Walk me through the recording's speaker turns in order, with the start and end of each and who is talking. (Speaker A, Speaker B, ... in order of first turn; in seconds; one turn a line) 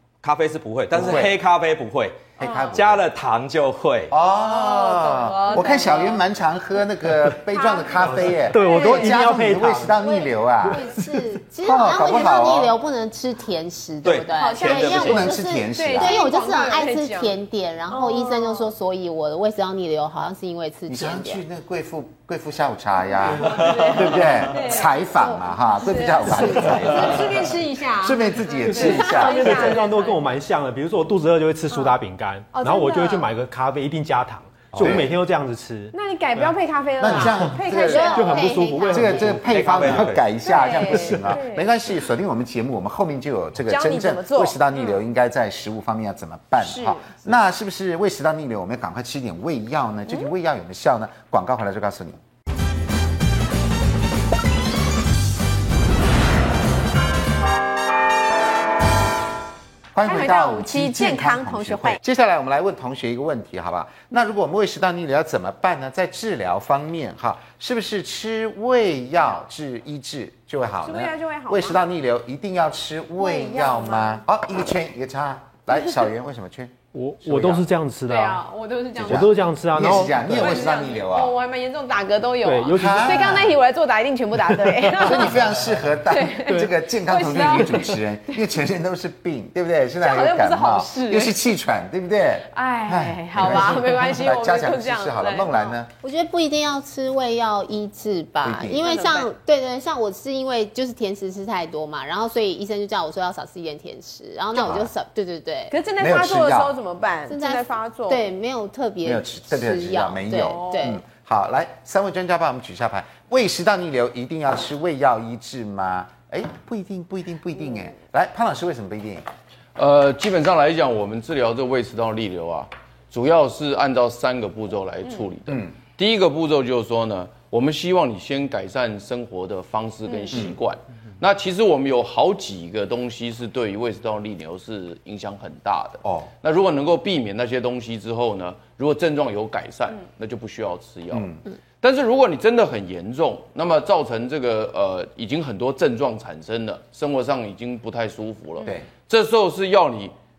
Speaker A: 0.2-4.1
Speaker B: 0.9-1.4
Speaker C: 2.4-2.8
Speaker B: 2.4-3.0
Speaker B: 4.1-10.9
Speaker C: 4.4-6.2
Speaker C: 7.5-9.3
Speaker D: 8.0-10.0
Speaker E: 10.0-21.4
Speaker D: 10.7-11.2
Speaker B: 11.6-12.8
Speaker A: 14.0-15.4
Speaker C: 14.3-17.4
Speaker B: 14.8-16.2
Speaker C: 17.9-18.7
Speaker B: 20.9-27.5
Speaker C: 23.3-25.0
Speaker A: 23.4-24.4
Speaker E: 25.2-27.1
Speaker C: 25.8-30.2
Speaker B: 28.0-29.8
Speaker D: 28.6-37.6
Speaker C: 31.7-32.0
Speaker C: 32.5-33.3
Speaker A: 34.7-35.0
Speaker B: 34.8-35.1
Speaker C: 35.9-39.0
Speaker B: 37.0-52.2
Speaker E: 37.8-39.4
Speaker D: 38.1-40.1
Speaker A: 39.5-40.3
Speaker C: 40.5-41.7
Speaker D: 40.8-41.4
Speaker C: 43.7-44.6
Speaker C: 46.6-47.1
Speaker B: 59.9-77.6
Speaker C: 60.0-62.0
Speaker C: 70.8-71.8
Speaker C: 73.2-74.2
Speaker D: 76.9-78.4
Speaker C: 78.1-79.4
Speaker B: 79.0-81.3
Speaker D: 79.0-80.7
Speaker C: 80.3-85.5
Speaker D: 82.4-83.5
Speaker B: 82.8-83.5
Speaker D: 84.4-85.2
Speaker B: 84.9-95.9
Speaker C: 86.0-88.3
Speaker C: 90.0-91.3
Speaker C: 92.5-95.8
Speaker E: 96.0-105.7
Speaker B: 98.4-98.9
Speaker C: 98.8-99.3
Speaker B: 104.5-104.9
Speaker C: 105.7-108.2
Speaker B: 106.0-106.7
Speaker E: 107.3-111.0
Speaker B: 109.0-119.2
Speaker C: 110.3-111.0
Speaker F: 119.8-150.1
Speaker B: 125.5-125.7
Speaker C: 130.1-130.4
Speaker B: 136.0-136.3
Speaker B: 141.1-141.4
Speaker B: 148.6-148.9